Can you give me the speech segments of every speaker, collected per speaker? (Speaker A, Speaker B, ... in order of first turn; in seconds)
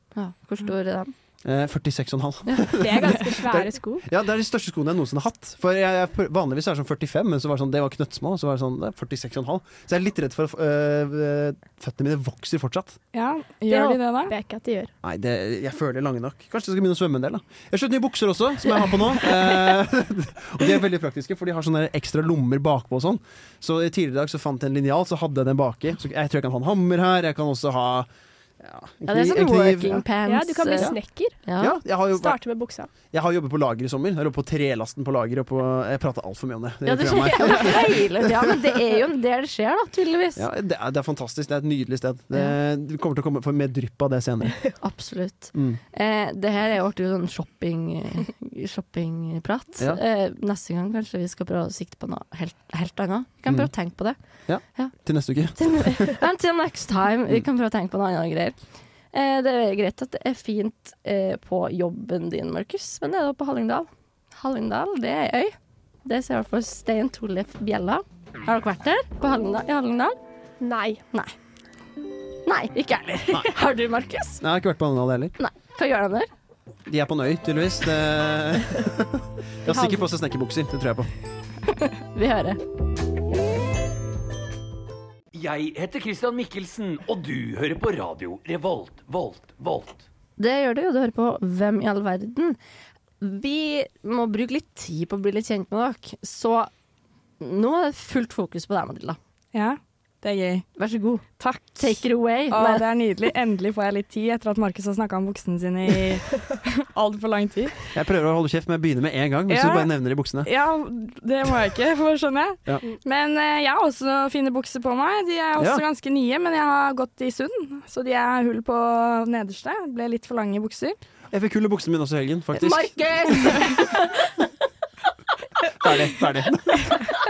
Speaker A: 0.1-1.1, 29.1-31.8, 36.9-40.5, 44.8-54.2, 55.6-58.6, 59.1-70.2, 72.5-74.4, 75.4-76.3, 82.1-82.6, 90.4-92.6, 93.2-96.7, 97.4-99.2, 100.8-101.3, 101.8-102.9, 122.6-124.3
Speaker B: 1.4-13.0, 15.0-28.1, 28.6-30.1, 31.6-32.4, 33.1-38.7, 40.4-44.7, 45.5-45.8, 54.5-56.2, 73.3-73.6, 74.4-75.3, 76.9-81.1, 107.9-110.5, 115.6-115.8, 121.3-122.9, 125.7-126.8
Speaker C: 2.8-4.0, 13.7-14.9, 30.2-31.4, 32.1-32.9, 70.6-71.0
Speaker D: 13.1-14.3, 99.5-100.7, 101.4-107.8, 109.5-109.9, 110.4-121.0
Speaker E: 85.3-89.9